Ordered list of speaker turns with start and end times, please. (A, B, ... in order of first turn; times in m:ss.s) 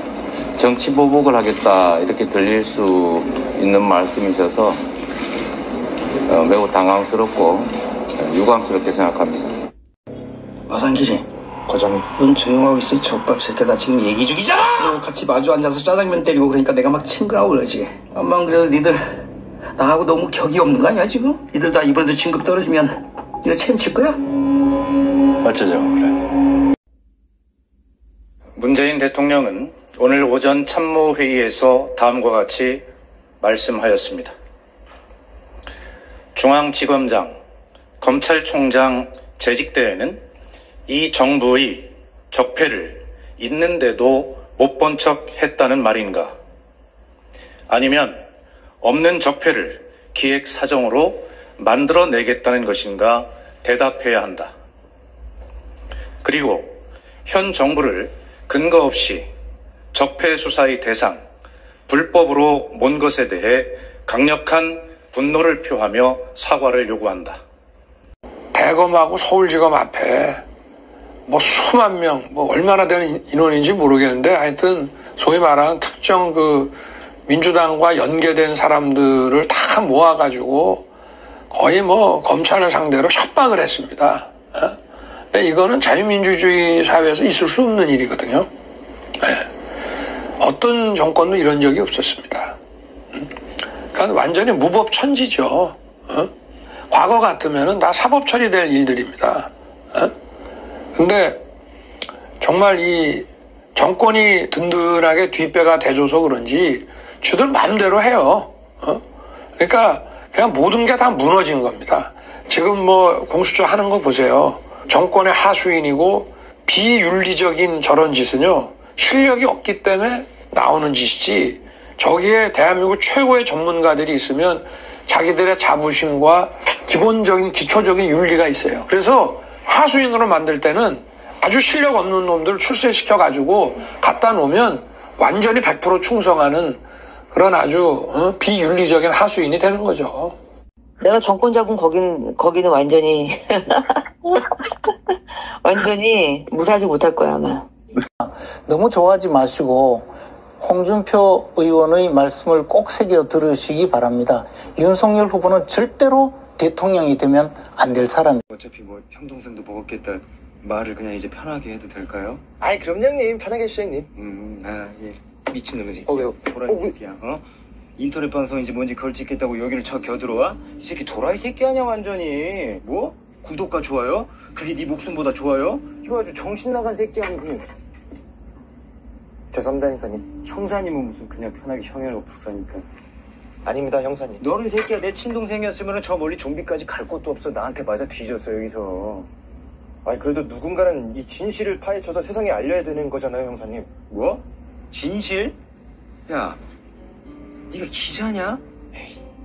0:00.6-0:04.8 A
0:06.3-0:09.5 A
0:10.7-0:19.2 B
0:19.7-0:24.2 B
0:25.4-0:26.2 C
0:28.6-0:32.8 C
0:33.4-0:34.3 C
0:36.3-0:37.4 C
0:38.0-0:40.2 C
0:40.9-0:46.3 C
0:47.7-0:48.2 C
0:48.8-0:54.5 C
0:56.2-0:59.3 C
0:59.9-1:01.2 C
1:01.9-1:07.4 C
1:08.5-1:10.4 D
1:11.3-1:20.9 D
1:21.5-1:24.8 D
1:25.3-1:28.5 D
1:29.2-1:29.5 D
1:30.4-1:32.6 D
1:33.9-1:36.3 D
1:36.9-1:40.1 D
1:40.9-1:41.4 D
1:42.4-1:49.0 D
1:49.6-2:20.3 D
2:21.0-2:24.4 E
2:25.6-2:27.7 E
2:28.2-2:38.4 F
2:38.5-2:42.4 G
2:42.6-2:44.1 H
2:44.1-2:47.4 G
2:46.7-2:47.0 H
2:48.0-2:57.7 G
2:59.5-3:00.3 H
3:00.3-3:02.8 G
3:03.6-3:04.4 H
3:04.4-3:09.3 G
3:10.0-3:13.9 H
3:14.1-3:15.6 G
3:16.3-3:16.6 G
3:17.7-3:18.6 G